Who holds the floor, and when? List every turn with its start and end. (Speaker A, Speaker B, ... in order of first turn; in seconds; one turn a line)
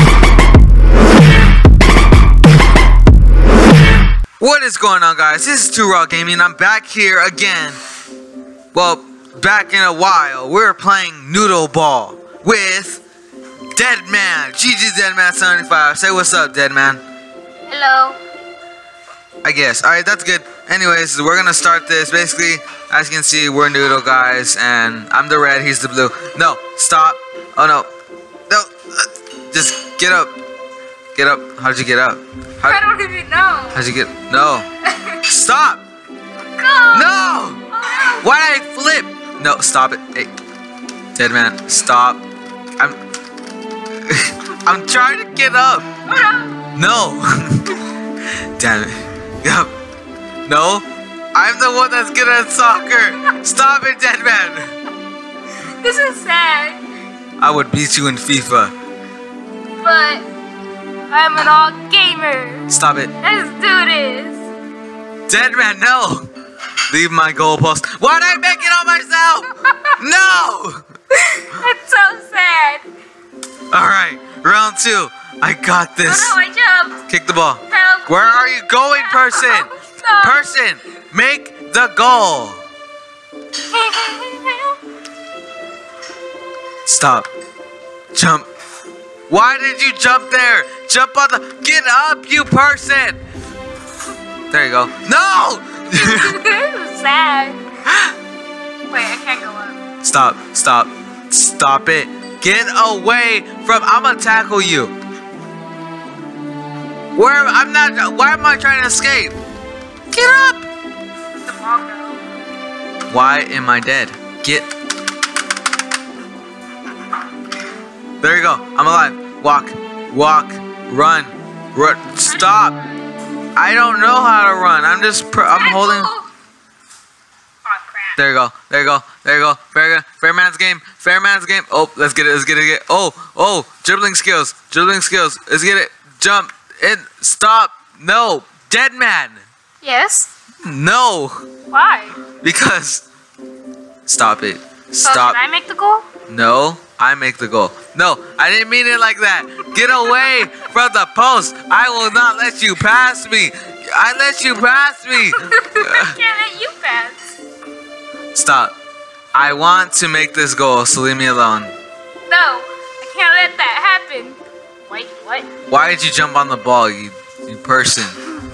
Speaker A: 4.4-7.8
Speaker A: 8.7-13.0
Speaker A: 13.7-17.0
Speaker B: 17.7-18.2
Speaker A: 19.4-27.9
Speaker A: 28.5-30.3
Speaker A: 31.1-32.8
Speaker B: 32.6-33.8
Speaker A: 33.7-34.6
Speaker B: 34.9-35.2
Speaker A: 35.2-35.8
Speaker B: 36.5-38.2
Speaker A: 36.9-37.6
Speaker A: 38.2-40.3
Speaker A: 41.1-42.2
Speaker A: 44.0-45.9
Speaker B: 46.0-46.7
Speaker A: 46.7-47.8
Speaker A: 48.6-49.7
Speaker A: 50.4-54.7
Speaker B: 55.8-56.8
Speaker A: 57.4-58.7
Speaker B: 59.8-60.2
Speaker B: 61.1-64.4
Speaker A: 62.7-63.1
Speaker A: 65.3-66.2
Speaker A: 66.9-70.8
Speaker B: 69.5-70.0
Speaker B: 71.2-72.8
Speaker A: 73.7-76.3
Speaker B: 76.0-77.0
Speaker A: 77.1-79.7
Speaker B: 77.7-80.6
Speaker A: 80.2-82.6
Speaker B: 83.7-84.8
Speaker A: 86.8-87.3
Speaker A: 88.1-88.5
Speaker A: 89.3-93.2
Speaker A: 94.5-96.4
Speaker B: 96.0-97.6
Speaker B: 98.9-99.8
Speaker A: 100.0-104.9
Speaker A: 107.1-109.3
Speaker A: 110.1-110.7
Speaker B: 111.3-112.2
Speaker A: 113.1-114.7
Speaker A: 118.2-122.7
Speaker B: 122.2-123.1
Speaker A: 123.5-126.1
Speaker B: 125.5-126.3
Speaker B: 127.6-128.2
Speaker A: 128.2-139.4
Speaker B: 139.8-140.3
Speaker A: 140.6-141.5
Speaker B: 141.7-142.2
Speaker A: 142.4-143.0
Speaker A: 144.1-145.4
Speaker B: 145.0-146.1
Speaker A: 146.3-156.2
Speaker B: 149.6-150.3
Speaker B: 155.3-157.2
Speaker A: 158.3-158.7
Speaker A: 159.3-161.7
Speaker B: 162.3-165.5
Speaker A: 165.7-168.2